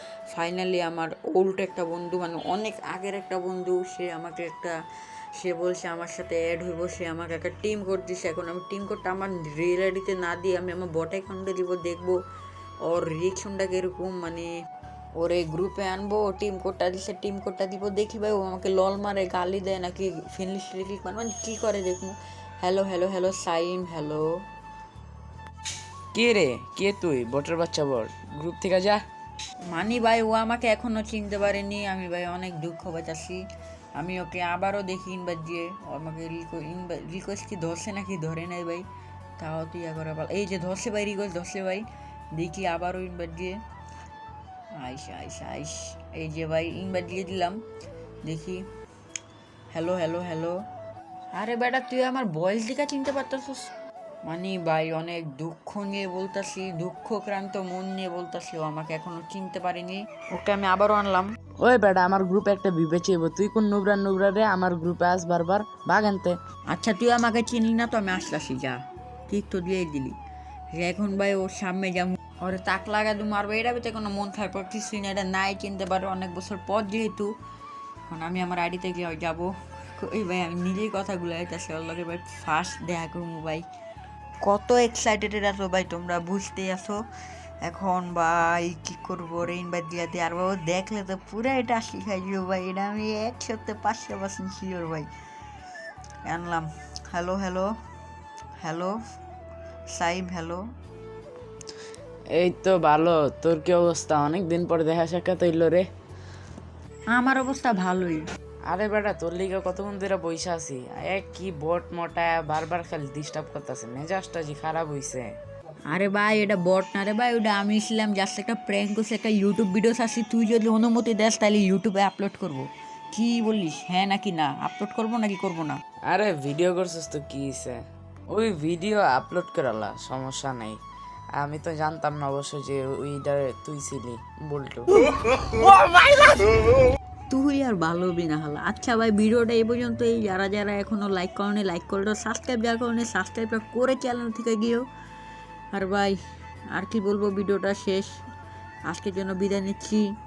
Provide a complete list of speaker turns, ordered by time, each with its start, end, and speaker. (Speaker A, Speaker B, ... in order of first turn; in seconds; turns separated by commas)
Speaker A: 0.3-4.8, Speaker A: 5.4-12.2, Speaker A: 12.8-14.5, Speaker A: 15.2-24.3, Speaker B: 26.1-29.0, Speaker A: 29.7-33.4, Speaker A: 34.0-38.8, Speaker A: 39.4-43.6, Speaker A: 44.8-47.6, Speaker A: 48.2-48.6, Speaker A: 49.7-50.6, Speaker A: 51.3-53.7, Speaker A: 54.2-61.3, Speaker B: 61.6-66.4, Speaker A: 66.7-70.2, Speaker A: 70.7-77.3, Speaker A: 78.1-83.6, Speaker A: 84.4-87.0, Speaker A: 87.6-95.1, Speaker A: 96.2-97.7, Speaker A: 98.6-99.0, Speaker A: 99.9-100.6, Speaker B: 102.3-105.9, Speaker A: 107.1-108.2, Speaker B: 108.7-115.4, Speaker A: 115.9-125.8, Speaker B: 126.1-130.8, Speaker B: 131.4-136.8, Speaker A: 137.3-144.8, Speaker A: 145.7-146.2, Speaker A: 146.7-148.1, Speaker A: 148.9-150.1